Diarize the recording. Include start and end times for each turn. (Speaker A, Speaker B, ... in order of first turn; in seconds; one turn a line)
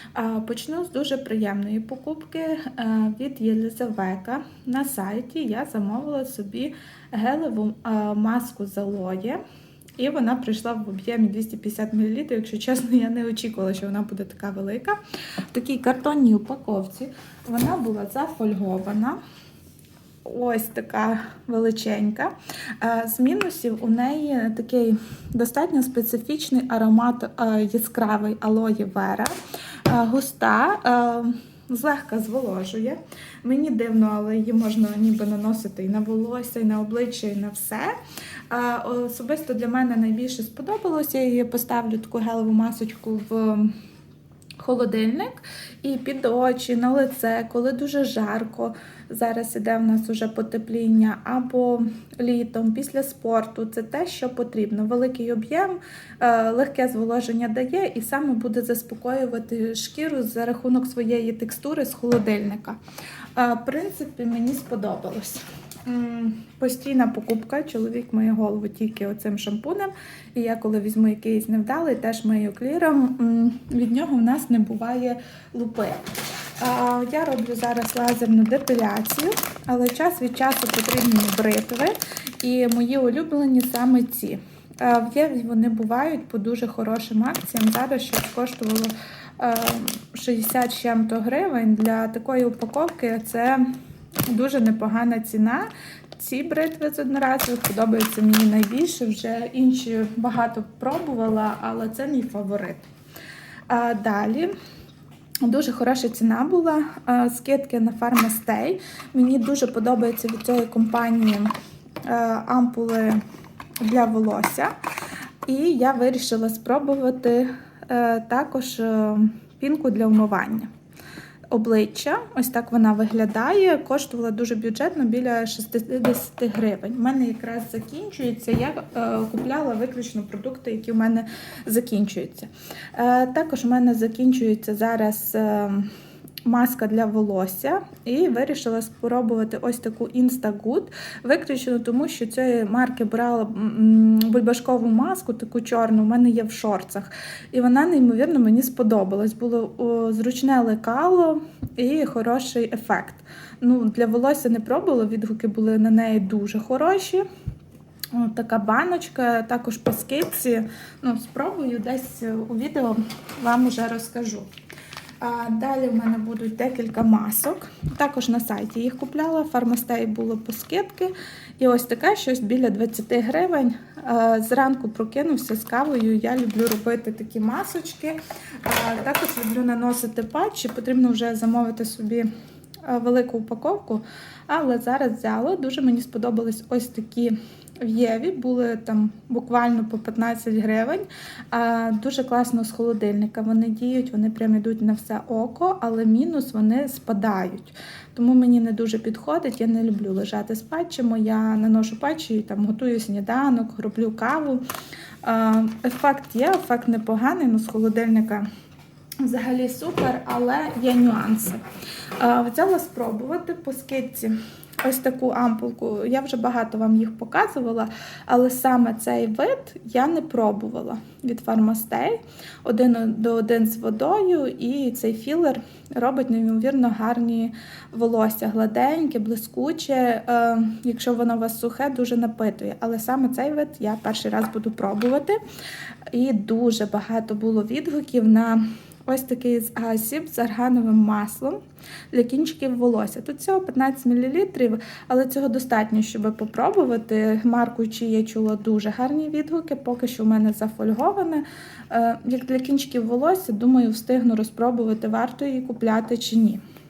Speaker A: 0.1-9.4
Speaker A: 10.0-15.0
Speaker A: 15.5-19.2
Speaker A: 20.2-29.3
Speaker A: 29.9-37.9
Speaker A: 38.5-43.7
Speaker A: 44.6-62.8
Speaker A: 63.4-76.0
Speaker A: 76.6-93.7
Speaker A: 94.3-102.9
Speaker A: 103.7-104.5
Speaker A: 105.4-111.5
Speaker A: 112.1-113.2
Speaker A: 113.8-114.7
Speaker A: 115.5-120.7
Speaker A: 121.5-135.9
Speaker A: 136.4-157.2
Speaker A: 158.1-164.5
Speaker A: 165.2-182.3
Speaker A: 182.8-204.6
Speaker A: 205.2-208.4
Speaker A: 209.2-211.6
Speaker A: 212.2-235.4
Speaker A: 236.1-241.6
Speaker A: 242.1-256.6